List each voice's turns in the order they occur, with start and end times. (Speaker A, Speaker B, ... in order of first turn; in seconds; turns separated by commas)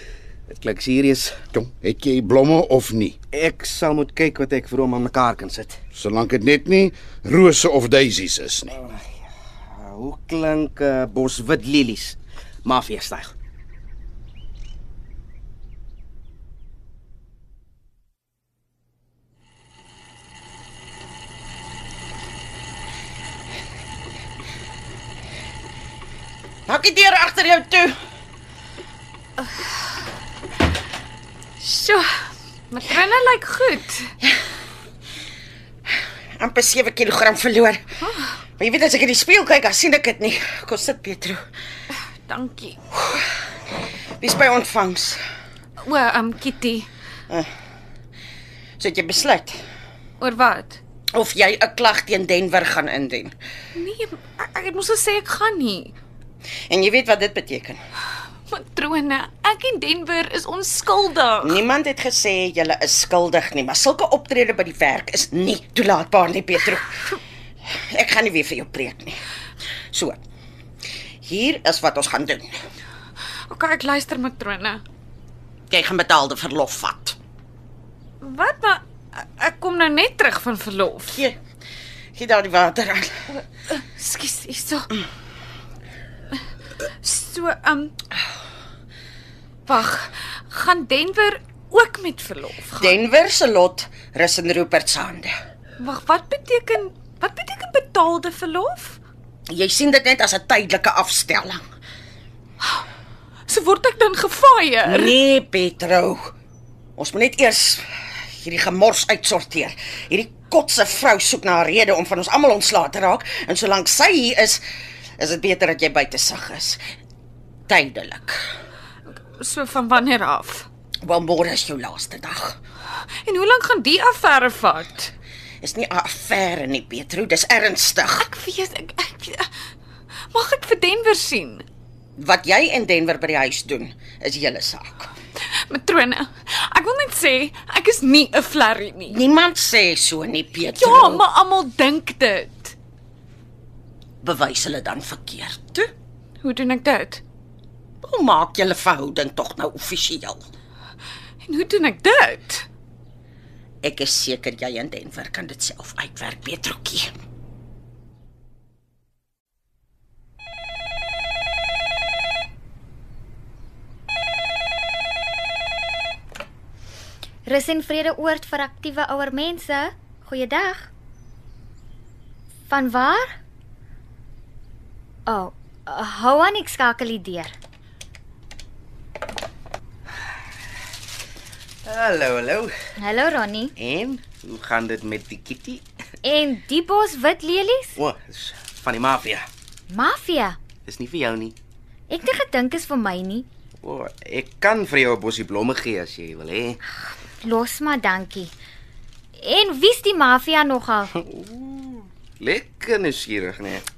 Speaker A: 0.5-1.4, Speaker B: 1.5-3.2, Speaker A: 3.3-5.8, Speaker B: 5.9-8.8, Speaker A: 8.7-9.0, Speaker A: 9.7-13.3, Speaker C: 26.7-27.9, Speaker D: 31.6-32.1, Speaker D: 32.7-34.1, Speaker C: 36.4-37.8, Speaker D: 38.0-38.3, Speaker C: 38.6-41.4, Speaker D: 42.2-42.8, Speaker C: 43.0-43.3, Speaker C: 44.2-45.2, Speaker D: 45.8-46.9, Speaker C: 48.8-49.6, Speaker D: 50.2-50.8, Speaker C: 51.1-53.3, Speaker D: 53.7-56.0, Speaker C: 56.7-57.8, Speaker D: 58.5-61.6, Speaker C: 61.4-67.2, Speaker C: 67.9-69.2, Speaker C: 69.9-70.2, Speaker C: 71.2-72.5, Speaker D: 73.5-74.8, Speaker C: 75.7-77.2, Speaker D: 78.2-81.2, Speaker C: 81.0-81.4, Speaker C: 82.2-83.1, Speaker D: 83.7-84.9, Speaker D: 87.0-87.9, Speaker D: 89.7-93.0, Speaker C: 92.7-95.3, Speaker D: 95.8-99.0, Speaker C: 99.5-101.6, Speaker D: 103.5-105.1, Speaker C: 104.8-106.3, Speaker C: 107.0-114.6, Speaker C: 115.2-116.8, Speaker C: 117.7-118.4, Speaker D: 119.3-120.7, Speaker C: 121.0-122.6, Speaker D: 123.2-125.1, Speaker C: 125.6-128.3, Speaker D: 128.2-129.5, Speaker D: 130.3-131.7, Speaker C: 132.2-135.1, Speaker D: 135.7-139.2, Speaker C: 139.1-141.2, Speaker D: 140.8-142.7, Speaker C: 144.2-145.9, Speaker D: 146.4-147.2, Speaker C: 148.0-150.4, Speaker D: 151.4-152.7, Speaker C: 153.8-157.1, Speaker E: 167.4-170.9, Speaker E: 172.7-173.4, Speaker E: 175.3-177.5, Speaker A: 181.8-182.7, Speaker E: 183.0-183.7, Speaker A: 183.8-185.8, Speaker E: 186.2-188.0, Speaker A: 188.0-189.5, Speaker E: 189.9-190.6, Speaker A: 190.8-191.6, Speaker E: 192.1-193.5, Speaker A: 193.8-196.8, Speaker E: 197.4-198.5, Speaker E: 199.4-201.1, Speaker A: 201.2-203.8